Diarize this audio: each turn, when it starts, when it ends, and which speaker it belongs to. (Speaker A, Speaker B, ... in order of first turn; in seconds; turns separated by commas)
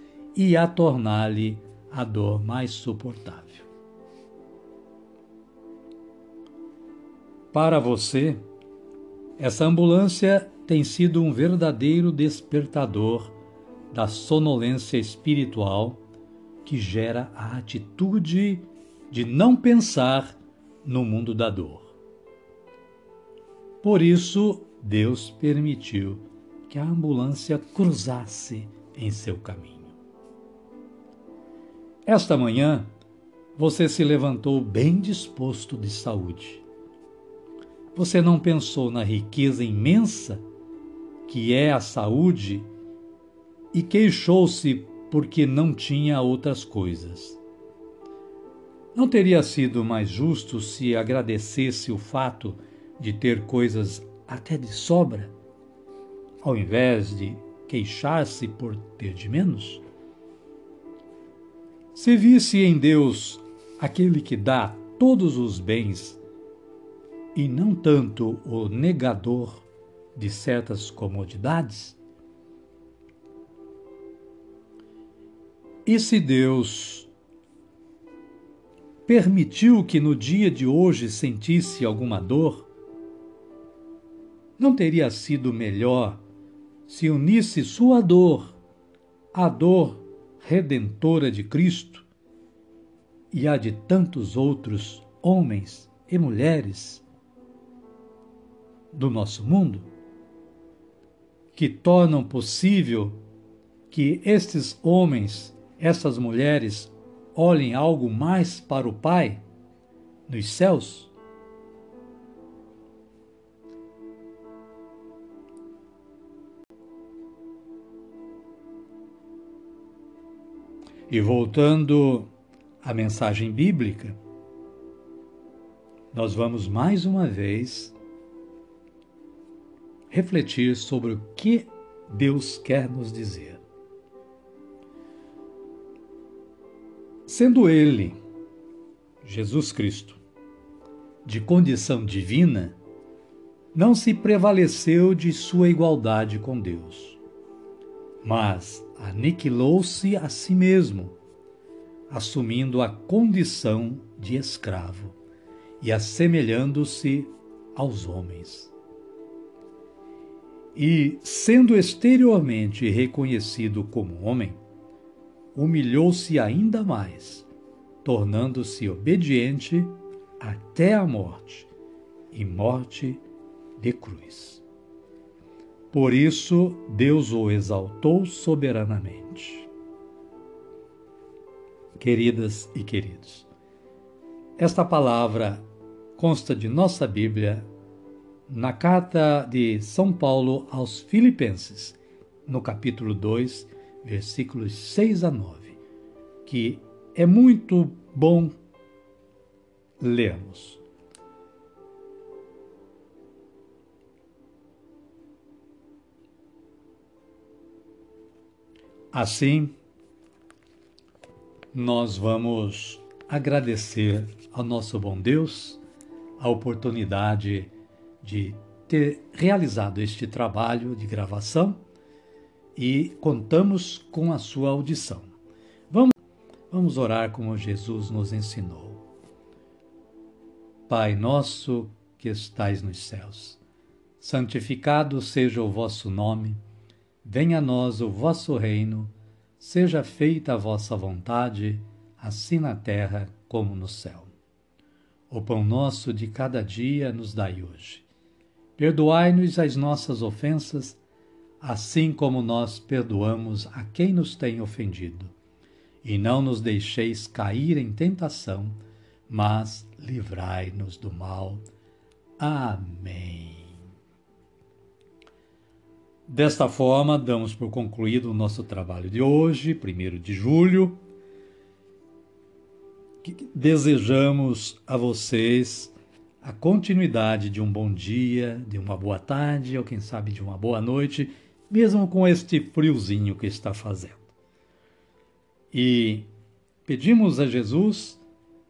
Speaker A: 0.3-3.7, Speaker A: 7.5-8.4, Speaker A: 9.4-13.3, Speaker A: 13.9-16.0, Speaker A: 16.6-21.9, Speaker A: 23.8-29.9, Speaker A: 32.0-32.9, Speaker A: 33.5-36.6, Speaker A: 37.9-40.4, Speaker A: 41.2-42.7, Speaker A: 43.7-47.4, Speaker A: 48.9-55.3, Speaker A: 56.4-59.8, Speaker A: 61.9-66.2, Speaker A: 67.3-72.0, Speaker A: 75.8-77.1, Speaker A: 79.0-82.7, Speaker A: 84.6-86.2, Speaker A: 86.8-88.5, Speaker A: 89.3-92.1, Speaker A: 93.3-97.0, Speaker A: 98.9-99.9, Speaker A: 101.5-103.2, Speaker A: 103.9-109.4, Speaker A: 110.3-111.1, Speaker A: 121.1-122.3, Speaker A: 122.8-124.2, Speaker A: 126.1-127.9, Speaker A: 130.1-133.6, Speaker A: 137.2-138.2, Speaker A: 139.2-140.2, Speaker A: 141.2-142.8, Speaker A: 143.7-147.2, Speaker A: 148.2-151.1, Speaker A: 152.1-155.2, Speaker A: 155.8-158.7, Speaker A: 160.7-164.6, Speaker A: 165.5-167.5, Speaker A: 168.0-171.7, Speaker A: 172.3-173.2, Speaker A: 173.8-174.6, Speaker A: 175.9-179.7, Speaker A: 182.0-183.5, Speaker A: 184.6-185.6, Speaker A: 186.2-187.7, Speaker A: 188.5-195.8, Speaker A: 196.4-198.6, Speaker A: 200.0-200.8, Speaker A: 209.1-209.8, Speaker A: 211.7-215.8, Speaker A: 216.4-221.8, Speaker A: 222.8-225.3, Speaker A: 226.7-229.0, Speaker A: 230.9-233.6, Speaker A: 234.2-236.6, Speaker A: 237.2-244.3, Speaker A: 245.3-248.1, Speaker A: 248.8-251.0, Speaker A: 251.6-255.3, Speaker A: 256.0-261.6, Speaker A: 262.4-263.8, Speaker A: 266.3-271.0, Speaker A: 273.2-284.3, Speaker A: 285.7-286.3, Speaker A: 286.8-288.2